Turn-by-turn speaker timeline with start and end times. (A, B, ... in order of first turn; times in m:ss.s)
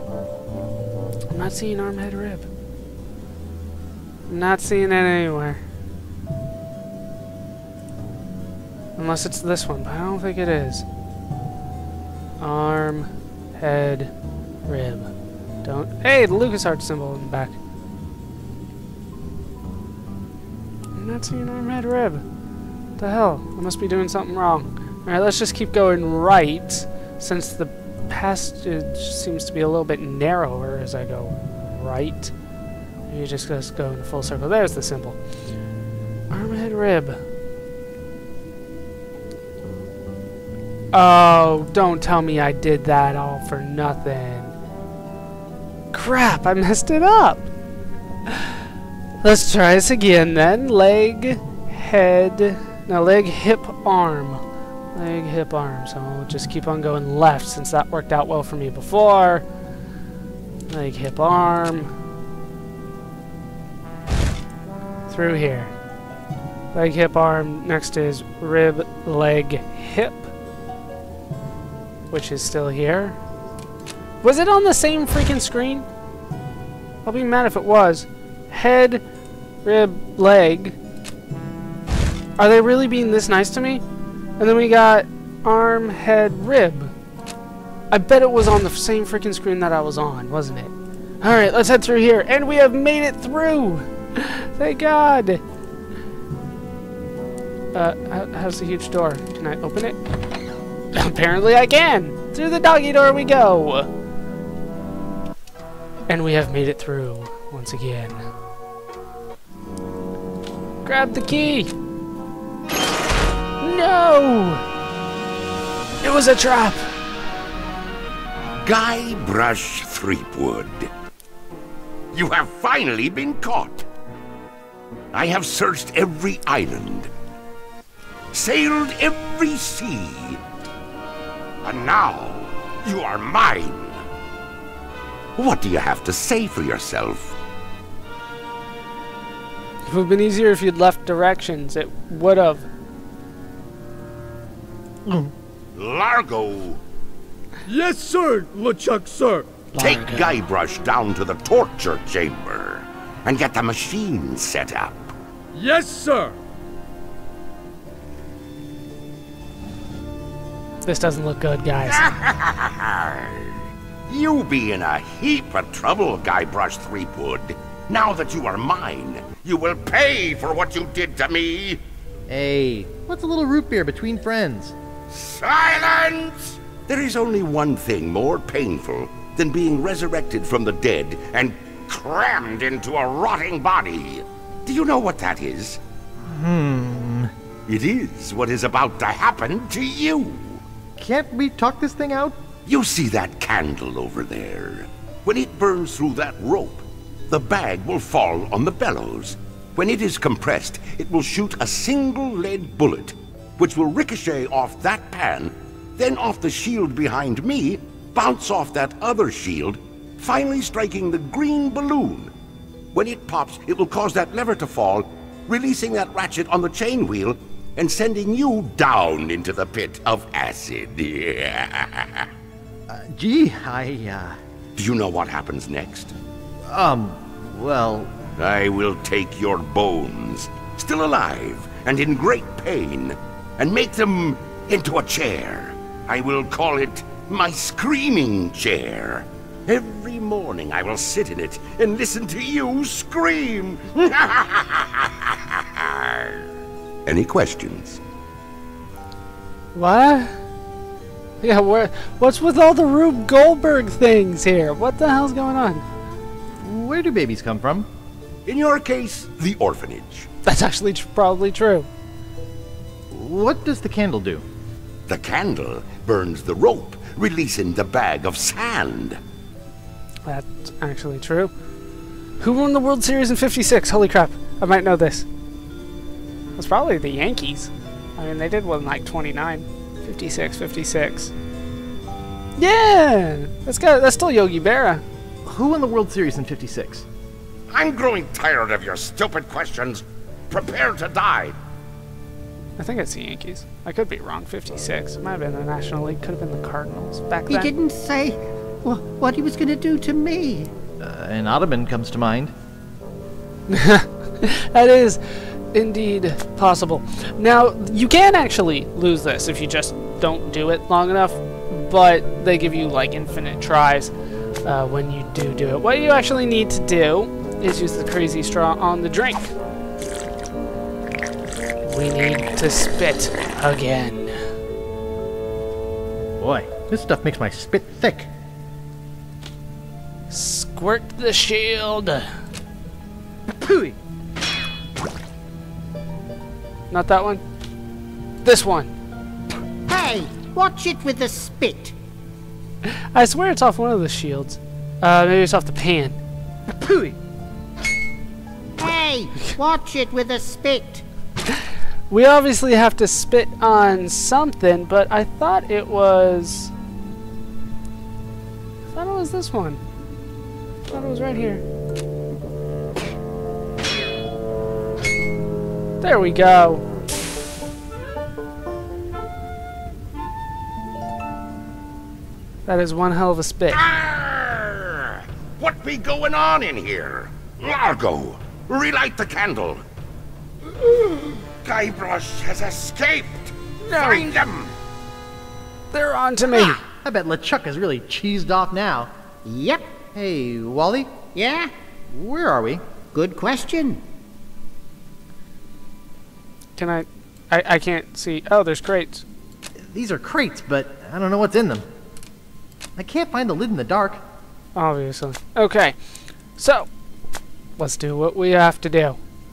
0:01.3-0:02.5 A
0:04.3-0:05.6 A
0:09.0-0:10.8 A
0:12.4-0:14.1 A
0:14.6-0:15.1 A
0:15.6-0:17.6 A
0:20.9-0:22.2 A
0:23.0-0:32.3 A
0:33.1-0:35.2 A
0:36.3-0:37.2 A
0:40.9-0:44.5 A
0:45.9-0:47.5 A
0:49.2-0:54.4 A
0:54.9-0:59.4 A
1:00.7-1:01.9 A
1:05.1-1:05.7 A
1:06.7-1:10.3 A
1:12.1-1:13.2 A
1:14.2-1:15.9 A
1:17.0-1:19.0 A
1:19.6-1:20.8 A
1:22.4-1:23.8 A
1:24.4-1:26.9 A
1:27.9-1:35.4 A
1:37.7-1:40.0 A
1:40.9-1:43.9 A
1:46.1-1:48.3 A
1:50.8-1:51.7 A
1:53.6-1:54.6 A
1:56.0-1:56.9 A
1:58.6-2:00.9 B
2:02.1-2:03.8 B
2:05.1-2:07.1 B
2:08.3-2:10.4 B
2:11.6-2:14.0 B
2:15.4-2:17.4 B
2:19.8-2:22.7 A
2:25.0-2:25.3 C
2:25.7-2:26.8 B
2:27.7-2:29.6 D
2:29.7-2:30.4 A
2:29.7-2:35.1 B
2:35.6-2:36.3 D
2:40.8-2:42.1 A
2:41.8-2:43.5 B
2:44.1-2:51.8 B
2:52.3-2:54.7 C
2:55.1-3:05.8 B
3:06.2-3:07.3 C
3:07.7-3:10.6 B
3:11.0-3:12.4 C
3:12.6-3:32.3 B
3:32.9-3:42.3 B
3:42.9-3:44.4 C
3:44.8-3:46.1 B
3:46.7-3:48.2 C
3:48.4-4:06.4 B
4:07.0-4:08.0 B
4:09.7-4:10.3 A
4:11.4-4:15.8 A
4:16.6-4:17.9 C
4:18.4-4:20.3 B
4:20.4-4:21.9 A
4:23.1-4:24.4 C
4:25.1-4:29.2 B
4:30.2-4:31.5 A
4:32.4-4:35.2 A
4:36.6-4:41.3 A
4:42.6-4:45.0 A
4:45.4-4:47.0 C
4:47.7-4:51.6 B
4:52.8-4:57.7 A
4:57.5-5:00.7 E
5:01.0-5:02.5 C
5:03.7-5:05.2 A
5:05.7-5:14.1 A
5:14.6-5:19.5 A
5:21.8-5:24.4 A
5:26.4-5:28.3 C
5:30.3-5:32.3 A
5:33.6-5:33.9 C
5:36.9-5:37.4 A
5:38.4-5:38.9 A
5:39.9-5:41.9 E
5:42.8-5:46.2 A
5:48.8-5:51.0 E
5:52.1-5:56.7 A
5:58.9-5:59.8 A
6:00.9-6:01.6 A
6:06.0-6:06.8 A
6:12.6-6:13.8 A
6:13.7-6:19.8 B
6:20.7-6:24.7 B
6:23.8-6:24.4 A
6:25.9-6:26.8 A
6:27.0-6:29.1 C
6:29.4-6:29.9 E
6:30.1-6:31.1 C
6:31.3-6:31.7 E
6:32.1-6:32.8 C
6:33.1-6:34.0 E
6:36.8-6:39.2 A
6:39.8-6:41.8 C
6:43.0-6:44.2 C
6:44.7-6:46.0 A
6:46.6-6:46.9 A
6:47.8-6:49.2 A